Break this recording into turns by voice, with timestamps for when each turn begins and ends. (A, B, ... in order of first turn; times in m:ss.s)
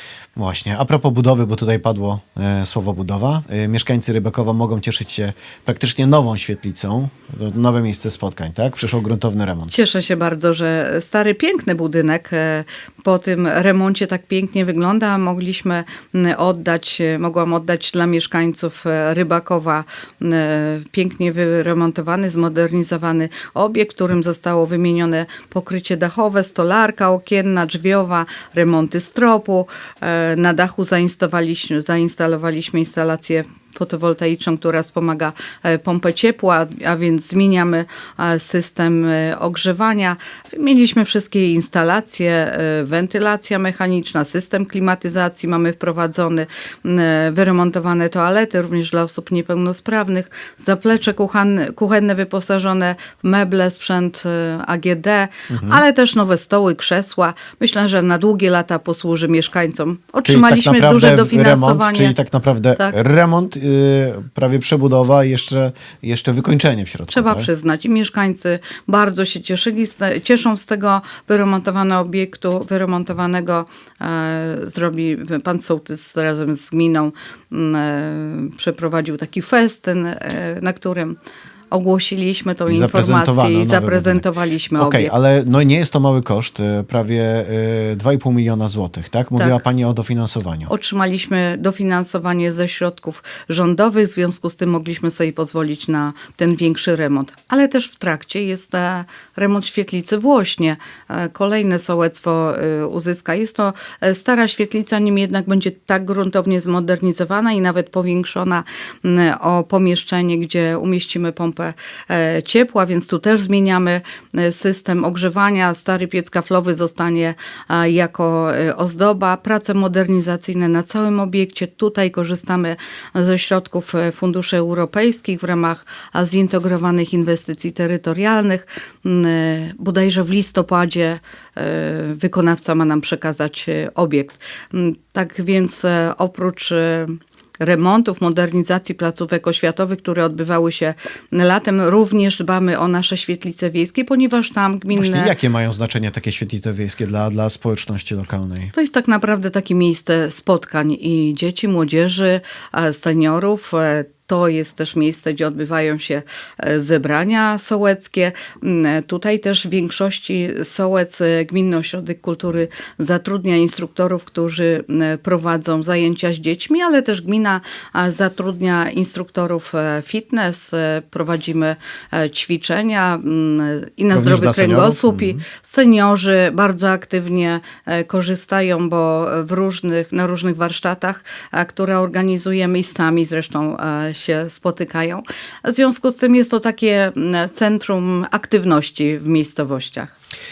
0:00.4-0:09.8 A
0:09.7-1:02.2 B
0:55.5-0:55.8 A
1:00.2-1:07.5 A
1:07.1-1:21.2 B
1:21.7-1:25.1 B
1:22.7-1:24.2 A
1:24.8-1:30.7 A
1:30.7-2:25.4 B
2:24.9-2:28.7 A
2:28.7-3:10.1 B
2:54.1-2:55.4 A